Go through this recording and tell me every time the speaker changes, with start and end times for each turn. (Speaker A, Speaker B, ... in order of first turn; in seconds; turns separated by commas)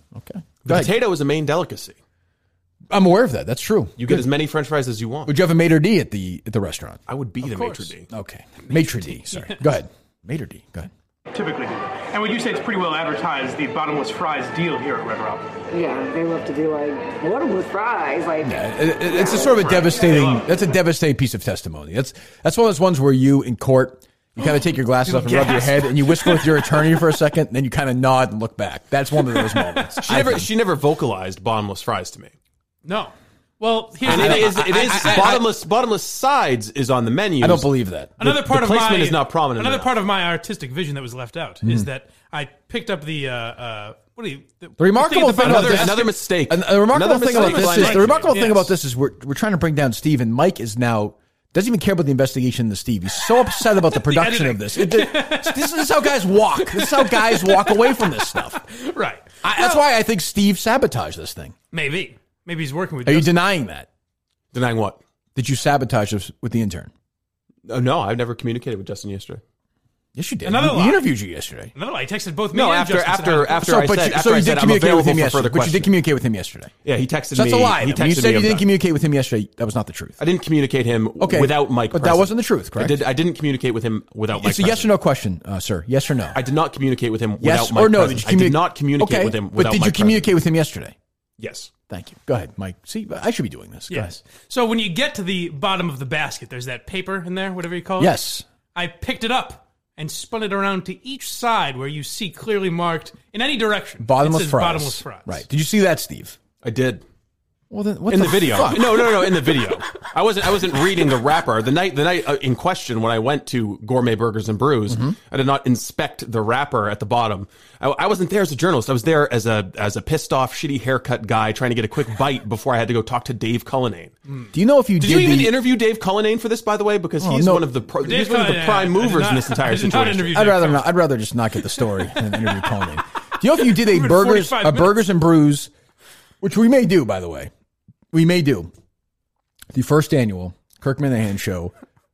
Speaker A: 0.1-1.0, Speaker B: 0.6-2.0, Speaker A: 2.9-4.3, Speaker B: 4.0-5.3, Speaker A: 5.2-7.0, Speaker B: 7.1-8.1, Speaker C: 7.4-7.9, Speaker A: 8.1-10.9, Speaker C: 8.6-9.7, Speaker D: 11.3-15.5, Speaker E: 15.7-19.6, Speaker A: 18.4-30.5, Speaker C: 19.9-20.2, Speaker C: 25.0-27.0, Speaker C: 29.3-30.0, Speaker B: 30.1-32.3, Speaker C: 32.9-35.5, Speaker A: 34.0-35.5, Speaker B: 34.1-37.7, Speaker A: 37.4-38.5, Speaker C: 38.2-46.2, Speaker B: 38.4-39.9, Speaker A: 41.6-41.9, Speaker A: 44.8-58.6, Speaker B: 45.4-48.3, Speaker C: 47.3-48.7, Speaker C: 53.8-55.9, Speaker C: 56.5-59.8, Speaker A: 59.4-61.5, Speaker C: 61.7-63.4, Speaker A: 63.0-63.9, Speaker B: 64.5-65.0, Speaker A: 65.4-66.9, Speaker B: 67.7-69.4, Speaker A: 70.1-71.7, Speaker C: 70.4-71.1, Speaker C: 71.8-73.8, Speaker B: 72.5-75.9, Speaker A: 73.6-76.7, Speaker B: 76.8-78.6, Speaker A: 77.3-80.2, Speaker B: 80.2-84.9, Speaker A: 81.2-83.0, Speaker A: 84.3-86.4, Speaker B: 86.3-90.3, Speaker A: 87.4-91.0, Speaker B: 91.4-91.7, Speaker A: 91.9-94.2, Speaker C: 93.9-98.2, Speaker A: 98.0-98.5, Speaker C: 98.8-105.4, Speaker A: 104.0-106.4, Speaker B: 106.6-107.0, Speaker A: 107.7-109.3, Speaker B: 108.1-124.1, Speaker A: 114.9-115.2, Speaker A: 124.5-125.6, Speaker B: 125.0-130.4, Speaker A: 127.2-127.7, Speaker C: 128.0-130.9, Speaker A: 130.3-135.7, Speaker C: 132.2-132.6, Speaker C: 133.6-135.0, Speaker A: 136.4-137.5, Speaker A: 138.1-138.7, Speaker A: 139.7-141.7